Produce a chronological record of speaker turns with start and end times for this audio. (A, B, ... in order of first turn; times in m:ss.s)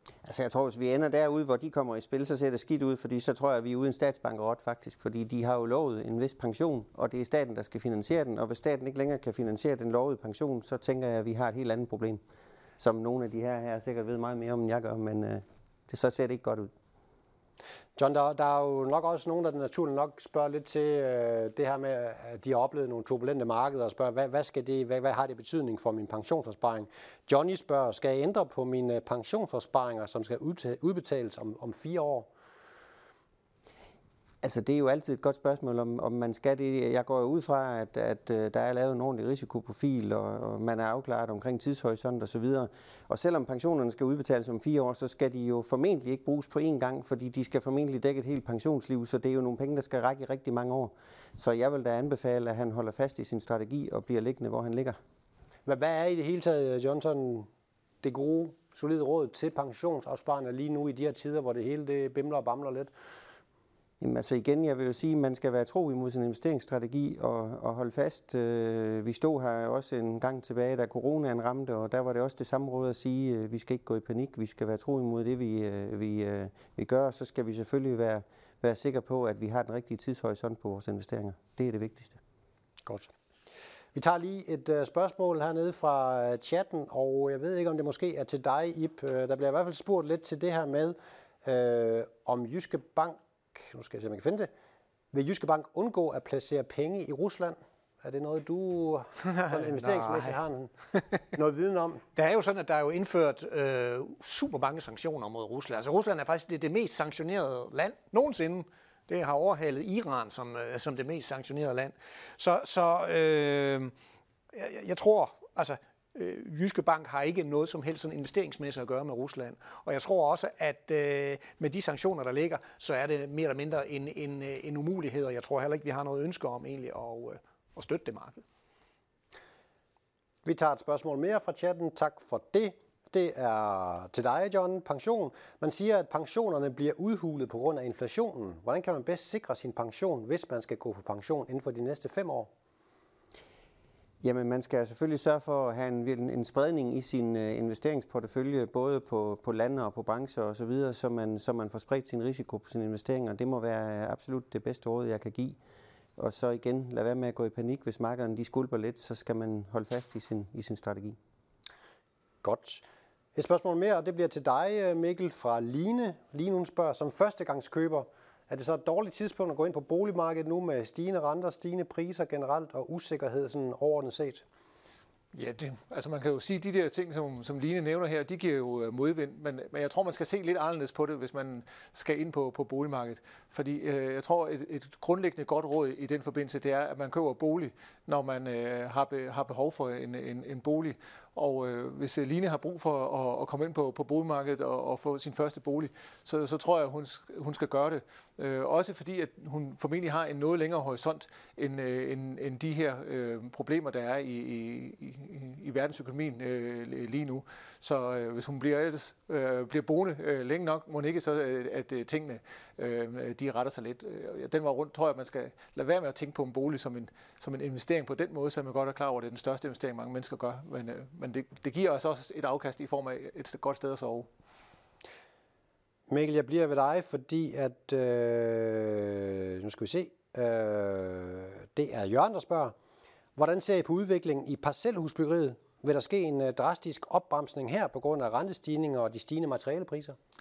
0:00.2-0:12.2 A
0:12.8-0:16.7 A
0:18.0-0:32.3 B
0:34.4-0:55.0 A
0:55.6-0:57.5 B
0:58.0-1:02.9 B
1:04.0-1:22.2 A
1:23.9-1:34.5 B
1:35.1-1:40.7 B
1:39.5-1:40.3 C
1:41.3-1:42.0 B
1:42.2-1:53.9 C
1:54.5-2:08.4 C
2:10.4-2:22.5 B
2:24.2-2:35.6 A
2:36.2-2:41.2 A
2:42.4-2:42.8 B
2:43.3-2:54.4 B
2:55.3-3:44.3 D
3:46.1-3:52.7 B
3:53.4-4:00.2 B